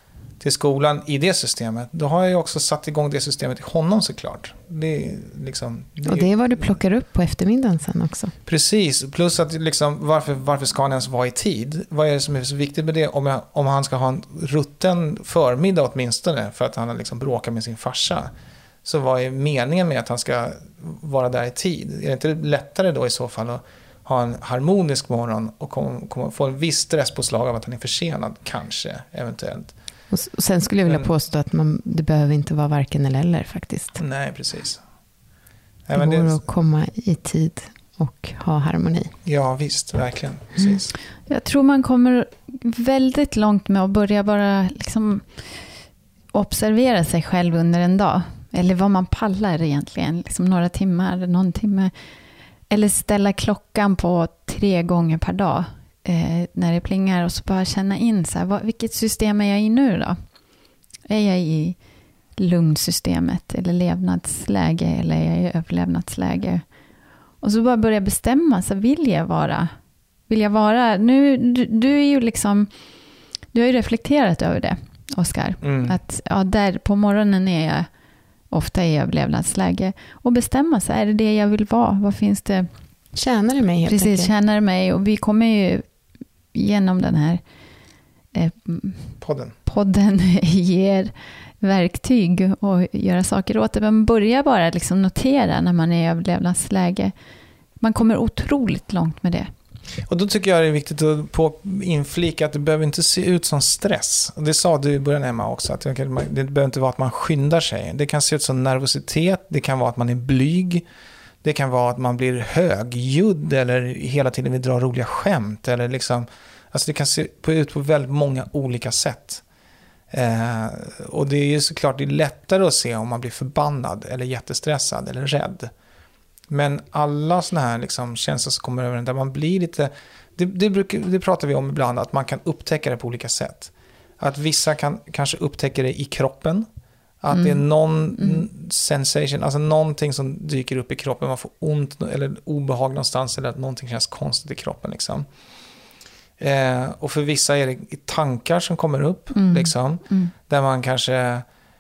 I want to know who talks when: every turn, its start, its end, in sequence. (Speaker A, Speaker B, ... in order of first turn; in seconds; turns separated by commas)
Speaker A: 0.4-6.3, Speaker B: 6.0-8.3, Speaker A: 8.4-18.3, Speaker A: 18.8-29.7, Speaker B: 30.1-34.0, Speaker A: 34.0-34.8, Speaker A: 35.9-36.4, Speaker B: 35.9-39.1, Speaker A: 39.2-40.9, Speaker C: 41.3-45.6, Speaker C: 46.3-51.9, Speaker C: 52.7-60.2, Speaker C: 61.1-61.8, Speaker C: 62.4-66.6, Speaker C: 67.4-69.7, Speaker C: 70.3-72.7, Speaker C: 73.5-77.9, Speaker A: 75.6-76.0, Speaker C: 78.5-82.7, Speaker B: 83.1-84.3, Speaker C: 83.8-85.8, Speaker C: 86.5-87.4, Speaker C: 88.3-97.1, Speaker A: 89.2-89.5, Speaker C: 97.8-99.5, Speaker A: 100.1-110.8, Speaker A: 111.4-119.4, Speaker A: 120.1-125.7, Speaker A: 126.5-136.7, Speaker A: 137.2-145.2, Speaker C: 137.3-137.6, Speaker C: 138.1-138.4, Speaker A: 146.4-151.4, Speaker C: 149.3-150.3